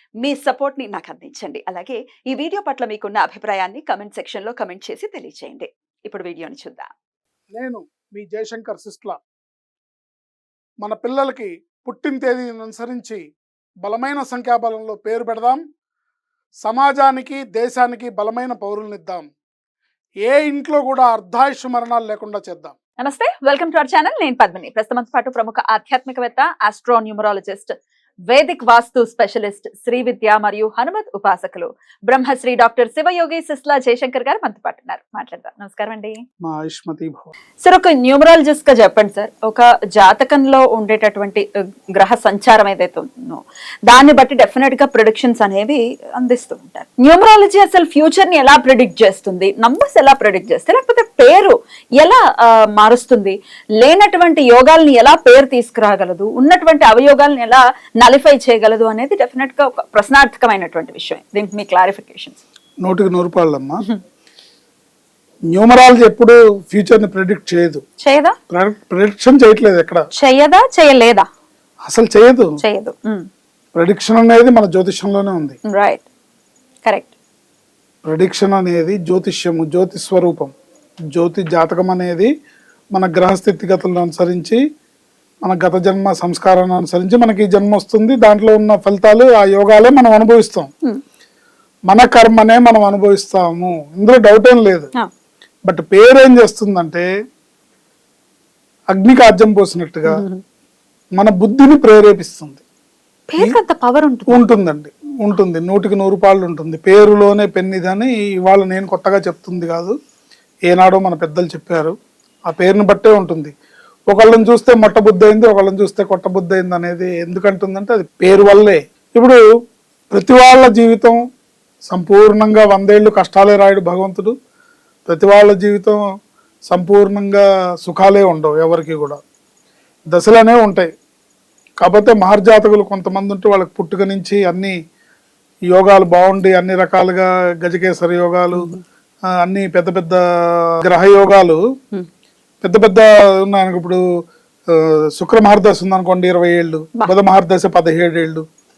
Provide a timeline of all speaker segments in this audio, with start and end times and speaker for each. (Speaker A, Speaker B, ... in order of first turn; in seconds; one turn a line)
Speaker A: 0.2-6.9
Speaker B: 7.5-9.2
Speaker B: 10.8-13.2
Speaker B: 13.8-15.6
Speaker B: 16.6-19.3
Speaker B: 20.2-22.8
Speaker A: 23.0-27.7
Speaker A: 28.3-36.1
Speaker B: 36.5-37.3
Speaker A: 37.6-62.4
Speaker B: 62.8-63.8
Speaker B: 65.5-67.8
Speaker A: 68.0-68.4
Speaker B: 68.5-70.0
Speaker A: 70.2-71.3
Speaker B: 71.9-72.5
Speaker A: 72.6-73.3
Speaker B: 73.8-75.6
Speaker A: 75.7-76.0
Speaker A: 76.9-77.1
Speaker B: 78.0-80.5
Speaker B: 81.1-82.3
Speaker B: 83.0-84.6
Speaker B: 85.4-90.7
Speaker B: 91.9-94.9
Speaker B: 95.7-97.1
Speaker B: 98.9-100.2
Speaker A: 100.1-100.4
Speaker B: 101.2-102.6
Speaker A: 103.3-104.4
Speaker B: 104.3-110.0
Speaker B: 110.7-111.9
Speaker B: 112.5-113.5
Speaker B: 114.1-119.4
Speaker B: 120.1-121.2
Speaker B: 121.9-124.3
Speaker B: 125.1-126.0
Speaker B: 126.7-129.2
Speaker B: 130.1-130.9
Speaker B: 131.8-134.8
Speaker B: 135.7-138.7
Speaker A: 138.6-138.8
Speaker B: 139.4-140.2
Speaker B: 140.8-141.6
Speaker B: 142.6-144.0
Speaker B: 145.2-148.4